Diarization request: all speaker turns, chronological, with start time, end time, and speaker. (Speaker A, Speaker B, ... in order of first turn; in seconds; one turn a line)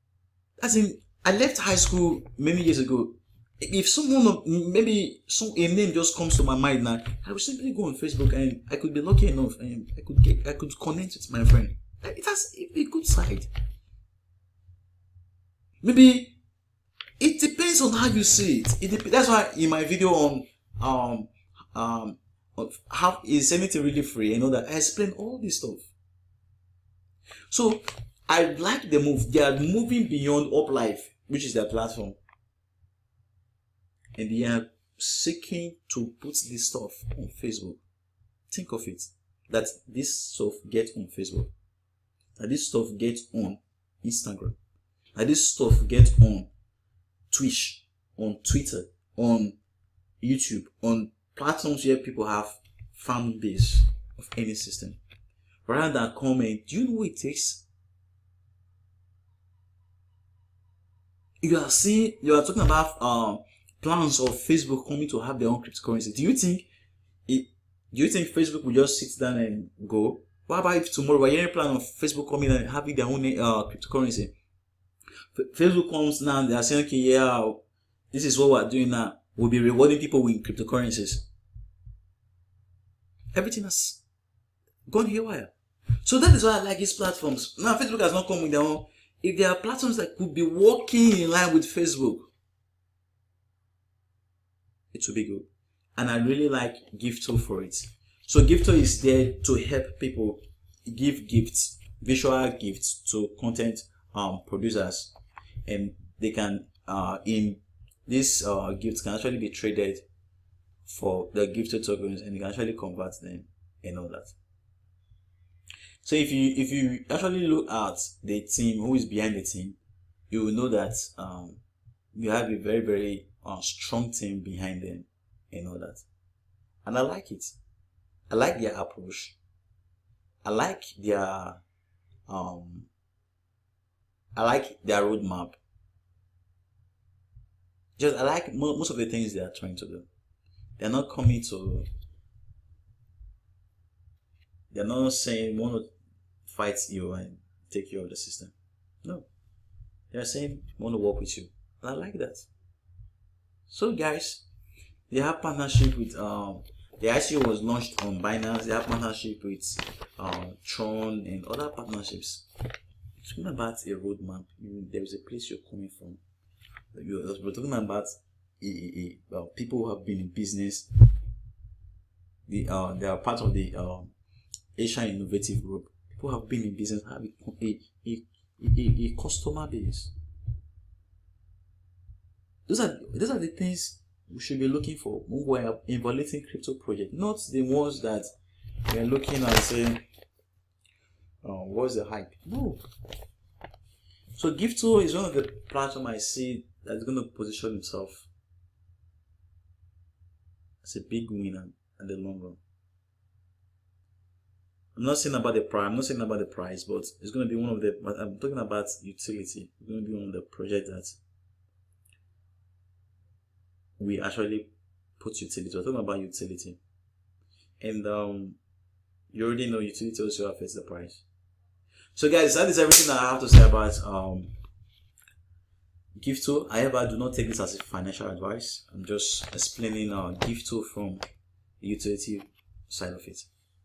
Speaker A: 0.6-13.5
Speaker A: 15.8-16.4
Speaker A: 17.2-25.9
Speaker A: 27.5-32.2
Speaker A: 34.2-37.8
Speaker A: 38.5-41.5
Speaker A: 42.4-44.6
Speaker A: 45.2-46.5
Speaker A: 47.3-49.6
Speaker A: 50.2-55.0
Speaker A: 55.7-57.6
Speaker A: 61.4-66.7
Speaker A: 67.3-74.3
Speaker A: 75.3-81.3
Speaker A: 83.3-84.0
Speaker A: 84.9-85.5
Speaker A: 86.0-92.3
Speaker A: 94.9-105.1
Speaker A: 105.7-110.0
Speaker A: 110.8-114.3
Speaker A: 116.0-119.8
Speaker A: 120.3-121.6
Speaker A: 122.2-126.0
Speaker A: 126.8-127.6
Speaker A: 128.3-129.4
Speaker A: 130.4-131.6
Speaker A: 132.3-132.9
Speaker A: 134.3-135.6
Speaker A: 138.0-140.1
Speaker A: 140.8-141.9
Speaker A: 144.7-145.9
Speaker A: 146.5-149.3
Speaker A: 150.1-152.5
Speaker A: 153.7-154.4
Speaker A: 155.1-162.4
Speaker A: 163.2-166.2
Speaker A: 166.9-170.9
Speaker A: 172.5-174.1
Speaker A: 174.8-180.1
Speaker A: 182.7-188.3
Speaker A: 188.9-190.0
Speaker A: 191.4-192.8
Speaker A: 194.3-198.3
Speaker A: 200.8-202.6
Speaker A: 204.9-211.2
Speaker A: 214.0-216.8
Speaker A: 217.8-218.6
Speaker A: 219.3-221.2
Speaker A: 222.2-224.5
Speaker A: 226.2-231.2
Speaker A: 231.8-233.5